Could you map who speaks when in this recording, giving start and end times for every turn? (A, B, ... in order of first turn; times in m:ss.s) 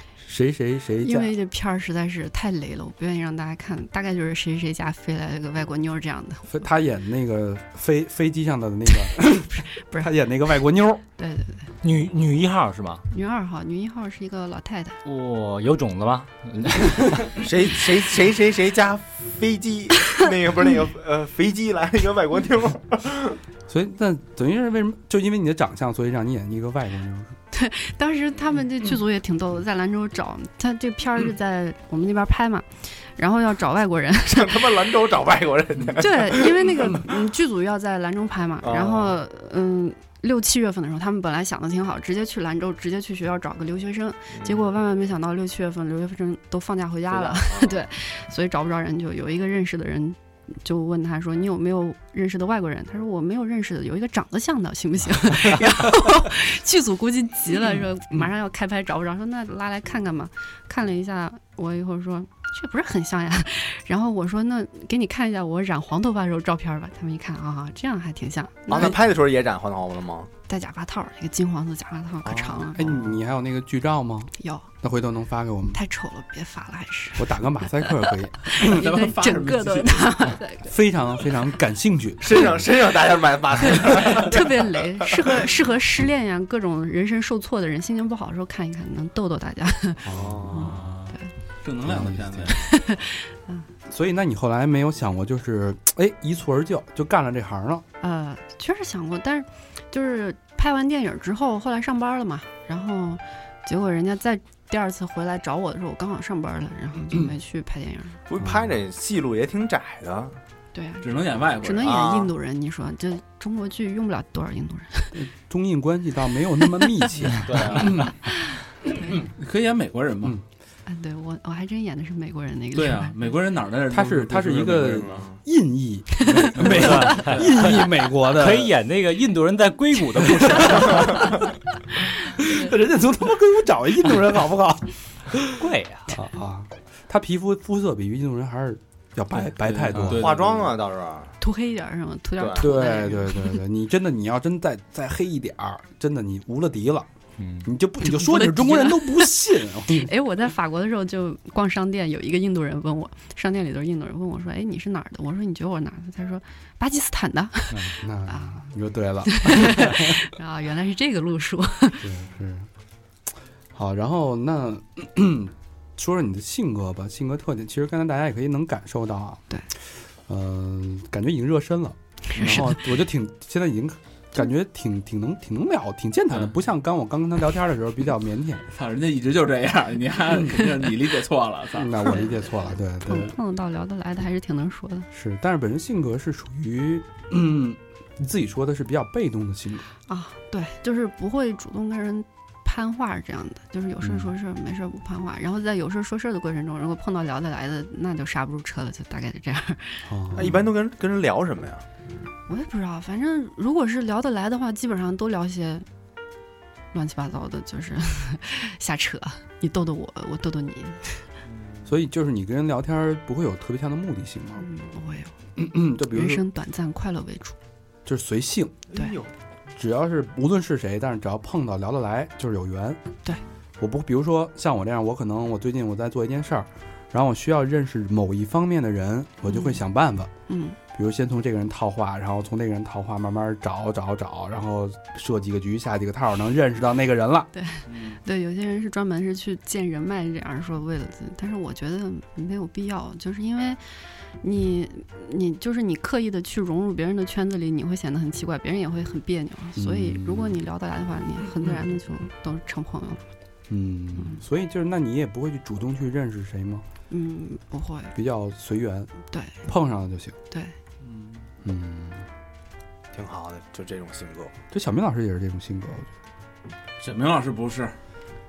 0:00.2-0:01.3 A
0:01.0-0:06.6 B
0:06.5-0:11.0 A
0:09.5-0:10.1 B
0:11.2-0:11.7 B
0:11.8-0:13.0 C
0:13.1-0:15.0 B
0:15.0-0:17.4 C
0:17.3-0:23.4 D
0:23.7-0:27.3 A
0:27.5-0:34.7 B
0:34.3-0:37.0 D
0:36.0-1:09.0 B
0:38.6-0:39.2 D
0:44.3-0:44.6 D
0:47.1-0:47.8 D
1:08.7-1:10.3 D
1:10.5-1:13.0 B
1:12.2-1:12.9 D
1:12.7-1:15.8 A
1:14.4-1:14.7 B
1:15.7-1:20.8 B
1:17.2-1:18.9 A
1:18.6-1:20.4 E
1:20.6-1:22.6 A
1:22.2-1:25.4 D
1:23.6-1:31.3 B
1:30.0-1:30.8 A
1:30.0-1:30.8 D
1:30.7-1:32.7 E
1:31.8-1:32.5 A
1:32.5-1:33.6 B
1:33.9-1:37.8 A
1:38.0-1:48.2 B
1:48.3-1:50.4 D
1:48.4-1:48.7 A
1:50.7-1:55.2 B
1:51.0-1:52.1 E
1:51.8-1:52.3 D
1:55.1-1:58.1 A
1:56.6-1:57.3 B
1:57.4-1:58.1 D
1:58.3-1:59.2 B
1:59.3-2:00.4 E
2:00.8-2:03.2 B
2:02.7-2:05.3 E
2:03.9-2:08.7 A
2:05.0-2:05.4 D
2:06.2-2:07.3 B
2:06.6-2:11.4 C
2:10.4-2:11.0 A
2:12.4-2:20.4 A
2:15.6-2:16.2 C
2:19.5-2:20.7 E
2:20.0-2:21.3 D
2:21.4-2:23.6 B
2:22.4-2:22.7 D
2:22.6-2:27.1 A
2:27.4-2:27.7 C
2:27.6-2:30.1 A
2:28.0-2:38.7 B
2:38.0-2:40.2 A
2:39.2-2:42.0 B
2:42.0-2:42.7 A
2:43.7-2:49.4 A
2:50.3-2:58.6 A
2:52.3-2:52.9 B
2:58.7-3:02.3 E
3:01.7-3:03.4 A
3:03.0-3:05.1 B
3:05.1-3:09.9 A
3:10.1-3:20.1 B
3:14.0-3:14.3 A
3:20.0-3:20.6 A
3:20.3-3:21.9 D
3:22.5-3:25.8 B
3:26.9-3:31.2 B
3:31.5-3:31.8 D
3:31.8-3:34.6 A
3:34.6-3:35.3 B
3:35.6-3:36.4 A
3:36.0-3:37.6 B
3:38.0-3:38.8 A
3:38.9-3:39.3 D
3:39.7-3:43.0 A
3:43.8-3:50.3 A
3:49.5-3:49.8 B
3:50.5-3:50.8 B
3:50.9-3:57.5 A
3:57.5-4:13.2 B
3:57.9-3:58.2 E
4:09.8-4:10.6 A
4:13.7-4:16.8 A
4:17.1-4:18.2 B
4:18.1-4:19.1 A
4:19.3-4:19.6 B
4:19.6-4:20.4 A
4:21.0-4:21.5 E
4:21.6-4:22.2 A
4:23.1-4:24.5 D
4:24.7-4:26.1 A
4:27.0-4:28.0 E